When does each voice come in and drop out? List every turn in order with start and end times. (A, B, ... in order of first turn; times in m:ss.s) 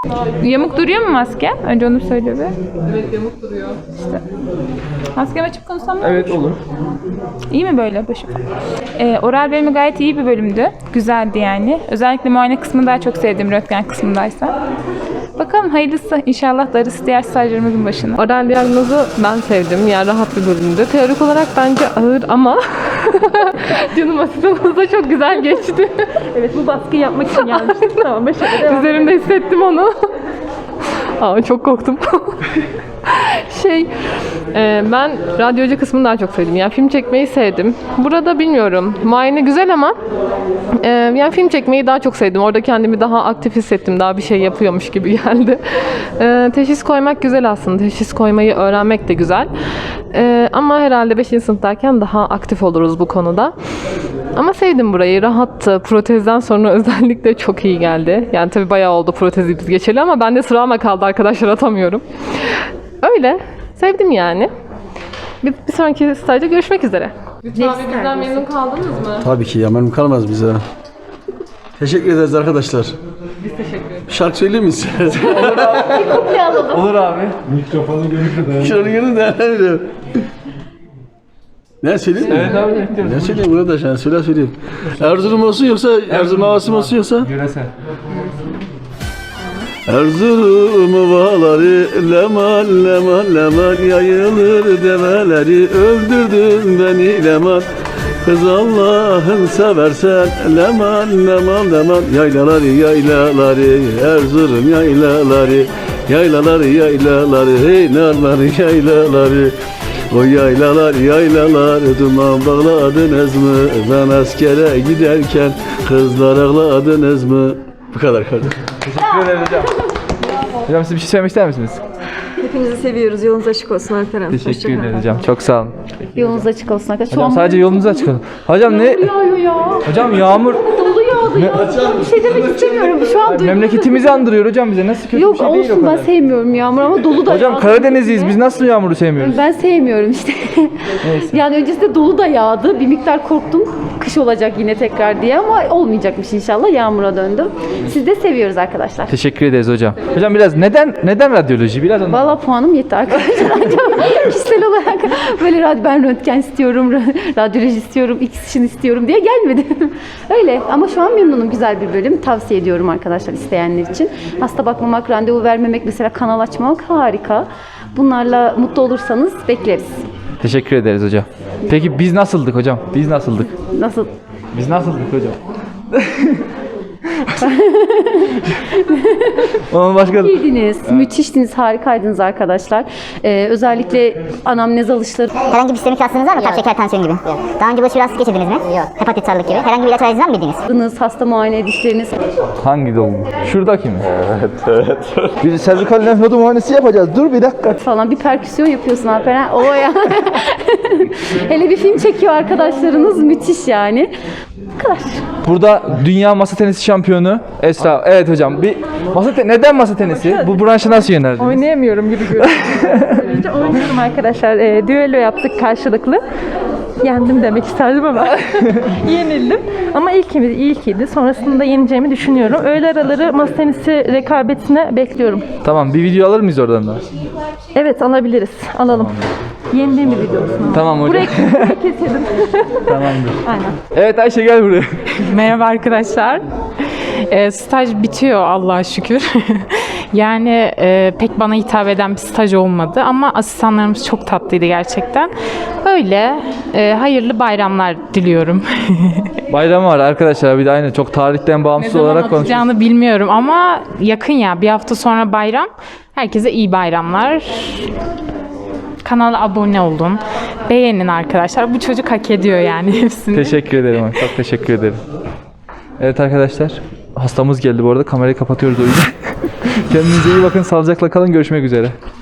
0:00.4-0:02.5 A
0:03.0-0:03.7 B
0:03.9-0:04.2 A
0:05.1-0:06.4 A
0:06.0-0:06.6 C
0:07.5-0:08.4 A
0:09.0-0:14.6 A
0:15.4-0:18.2 A
0:18.2-0:25.9 B
0:26.3-0:29.1 D
0:27.3-0:29.9 B
0:31.2-0:32.4 B
0:33.1-0:33.9 B
0:34.5-0:39.9 B
0:40.8-0:45.6 B
0:46.2-0:49.5 B
0:50.1-0:53.5 B
0:54.4-1:02.0 B
1:03.0-1:04.5 B
1:05.4-1:09.2 B
1:07.6-1:08.4 E
1:09.2-1:10.6 F
1:11.8-1:12.9 F
1:14.1-1:16.0 F
1:15.2-1:16.1 C
1:15.3-1:16.9 E
1:16.7-1:17.3 C
1:17.9-1:19.8 F
1:21.8-1:27.3 F
1:22.3-1:23.4 C
1:26.1-1:27.7 C
1:29.9-1:37.7 F
1:38.2-1:49.5 F
1:50.1-1:58.6 F
1:58.9-1:59.7 C
2:00.7-2:01.8 C
2:02.4-2:05.0 G
2:04.3-2:05.7 C
2:06.1-2:14.3 E
2:07.1-2:09.2 C
2:09.8-2:10.6 C
2:11.3-2:11.7 C
2:13.2-2:16.1 C
2:15.1-2:18.4 E
2:17.3-2:19.4 C
2:19.2-2:29.1 E
2:21.0-2:21.4 C
2:29.1-2:32.4 C
2:32.1-2:50.0 E
2:50.4-2:53.5 C
2:53.7-2:54.1 E
2:54.5-2:55.4 C
2:55.9-2:56.4 C
2:57.4-3:05.3 E
2:59.7-3:01.1 C
3:05.5-3:10.6 H
3:10.7-3:12.2 E
3:12.6-3:14.0 C
3:15.4-3:17.8 C
3:17.8-3:24.1 E
3:24.8-3:25.2 E
3:25.4-3:31.6 C
3:30.1-3:30.5 D
3:31.4-3:36.2 D
3:32.3-3:33.2 C
3:37.0-3:45.4 D
3:38.6-3:38.9 C
3:45.6-3:47.0 C
3:47.7-3:49.1 D
3:48.9-3:49.3 C
3:49.7-3:53.7 D
3:50.7-3:51.8 C
3:52.8-3:55.1 C
3:55.3-3:56.4 I
3:57.2-4:05.3 I
4:05.8-4:09.3 I
4:09.5-4:12.7 C
4:11.8-4:17.9 I
4:19.0-4:23.6 I
4:23.3-4:25.0 C
4:26.0-4:31.9 C